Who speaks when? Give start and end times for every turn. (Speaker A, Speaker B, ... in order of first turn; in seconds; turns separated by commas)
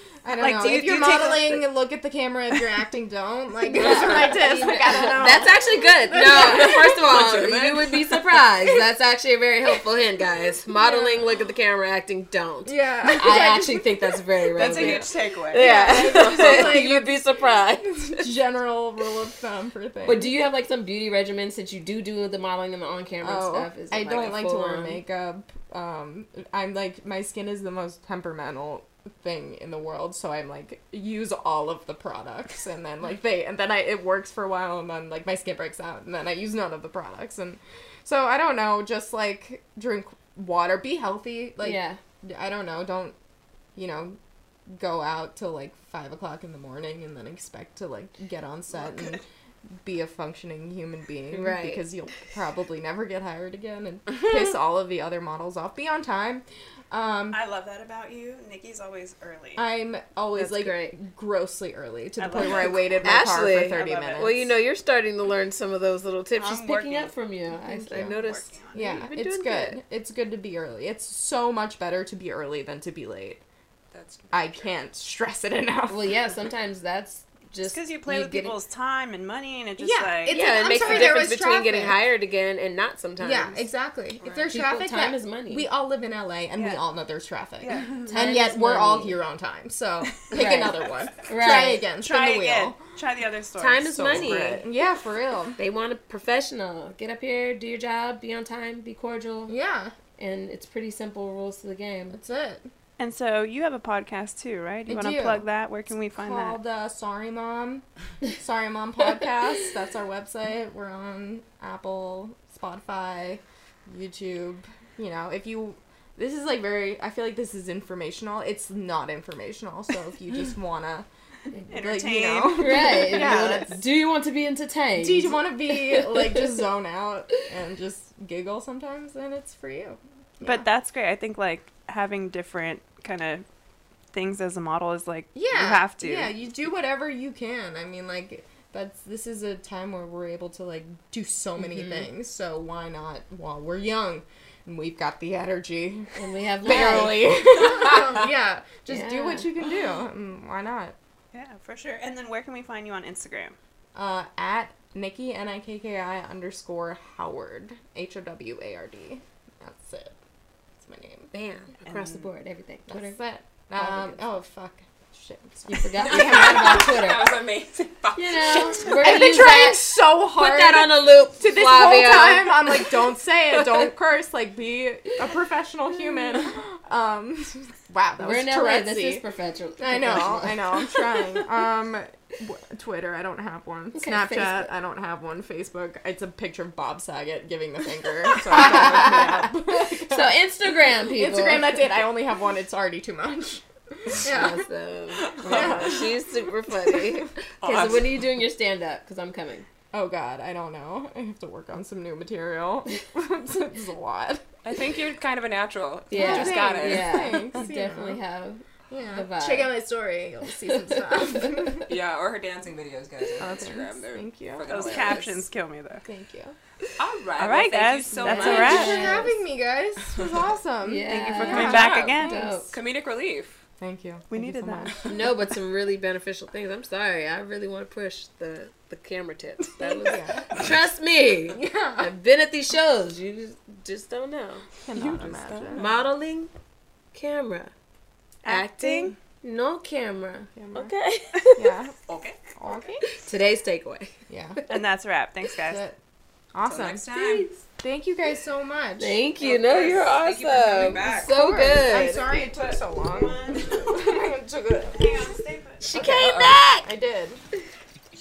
Speaker A: 0.2-7.2, Speaker B: 0.4-1.6, Speaker C: 3.7-18.1, Speaker D: 6.4-8.6, Speaker A: 10.7-11.3, Speaker A: 12.6-20.4, Speaker D: 14.5-16.8, Speaker C: 20.0-25.0, Speaker A: 23.2-43.1, Speaker C: 41.6-42.0, Speaker A: 43.7-44.2, Speaker A: 44.7-49.2, Speaker A: 49.8-57.4, Speaker C: 51.3-51.8, Speaker B: 57.3-59.6, Speaker A: 59.5-64.5, Speaker C: 60.3-61.0, Speaker B: 62.2-64.5, Speaker C: 63.0-69.8, Speaker B: 66.3-67.2, Speaker A: 67.5-68.2, Speaker B: 68.0-68.9, Speaker A: 68.7-73.4, Speaker D: 73.9-74.7, Speaker A: 74.3-76.4, Speaker C: 75.9-78.6, Speaker B: 77.6-81.1, Speaker A: 79.8-82.1, Speaker C: 80.3-83.7, Speaker A: 83.2-92.8, Speaker D: 84.2-84.5, Speaker C: 84.5-85.7, Speaker B: 86.5-86.8, Speaker B: 87.6-88.1, Speaker C: 88.1-89.2, Speaker C: 90.3-91.8, Speaker B: 92.0-94.2, Speaker C: 93.6-94.7, Speaker A: 93.9-95.6, Speaker C: 95.6-99.6, Speaker A: 99.5-99.9, Speaker C: 100.2-102.2, Speaker A: 102.1-102.7, Speaker B: 103.0-106.6, Speaker A: 104.9-105.5, Speaker A: 106.1-107.8, Speaker A: 108.4-121.1, Speaker A: 121.7-123.8, Speaker B: 121.7-123.6, Speaker C: 122.5-126.5, Speaker A: 125.0-130.7, Speaker B: 130.4-133.4, Speaker B: 134.1-136.3, Speaker A: 135.3-150.9, Speaker C: 141.6-142.1, Speaker C: 146.2-147.3, Speaker C: 148.9-149.5, Speaker B: 151.3-153.6, Speaker A: 153.9-160.2, Speaker A: 160.8-161.3, Speaker C: 161.3-163.2, Speaker D: 161.8-162.3, Speaker A: 162.9-167.1, Speaker C: 163.7-164.2, Speaker C: 165.7-167.4, Speaker D: 166.0-169.0, Speaker C: 168.1-173.0, Speaker A: 168.8-179.2, Speaker C: 178.2-181.4, Speaker A: 179.8-194.6, Speaker C: 183.9-184.7, Speaker C: 188.5-191.8, Speaker C: 194.2-199.7, Speaker D: 195.1-196.1, Speaker A: 195.4-196.2, Speaker A: 196.8-197.3, Speaker D: 197.6-198.3, Speaker A: 199.9-204.4, Speaker D: 204.6-207.6, Speaker C: 206.1-209.8, Speaker A: 206.1-208.2, Speaker A: 208.9-211.9, Speaker C: 210.7-211.5, Speaker D: 211.9-215.3, Speaker A: 213.4-215.5, Speaker B: 214.7-216.0, Speaker A: 216.0-216.6, Speaker D: 217.0-219.2, Speaker B: 217.4-219.2, Speaker C: 218.2-219.3, Speaker A: 218.2-222.7, Speaker C: 220.8-222.7, Speaker B: 221.1-222.4, Speaker D: 221.5-223.6, Speaker A: 223.8-225.3, Speaker B: 224.3-224.9, Speaker C: 225.1-234.7, Speaker A: 229.8-230.6, Speaker A: 231.5-232.1, Speaker A: 234.8-235.9, Speaker D: 234.9-236.0, Speaker C: 235.7-236.5, Speaker C: 237.1-237.7, Speaker B: 238.4-239.2, Speaker C: 238.5-241.7, Speaker A: 240.5-240.9, Speaker A: 241.6-241.9, Speaker D: 242.1-242.9, Speaker A: 242.6-243.0, Speaker C: 243.2-244.1, Speaker A: 244.3-244.6, Speaker B: 244.7-245.8, Speaker A: 245.6-246.0, Speaker A: 246.5-247.1, Speaker D: 246.6-247.5, Speaker C: 247.1-247.6, Speaker A: 247.8-249.2, Speaker C: 249.0-252.3, Speaker D: 249.4-251.4, Speaker A: 250.9-255.2, Speaker B: 252.4-254.2, Speaker B: 254.8-255.9, Speaker C: 255.8-256.9, Speaker D: 255.9-256.6, Speaker A: 256.0-257.4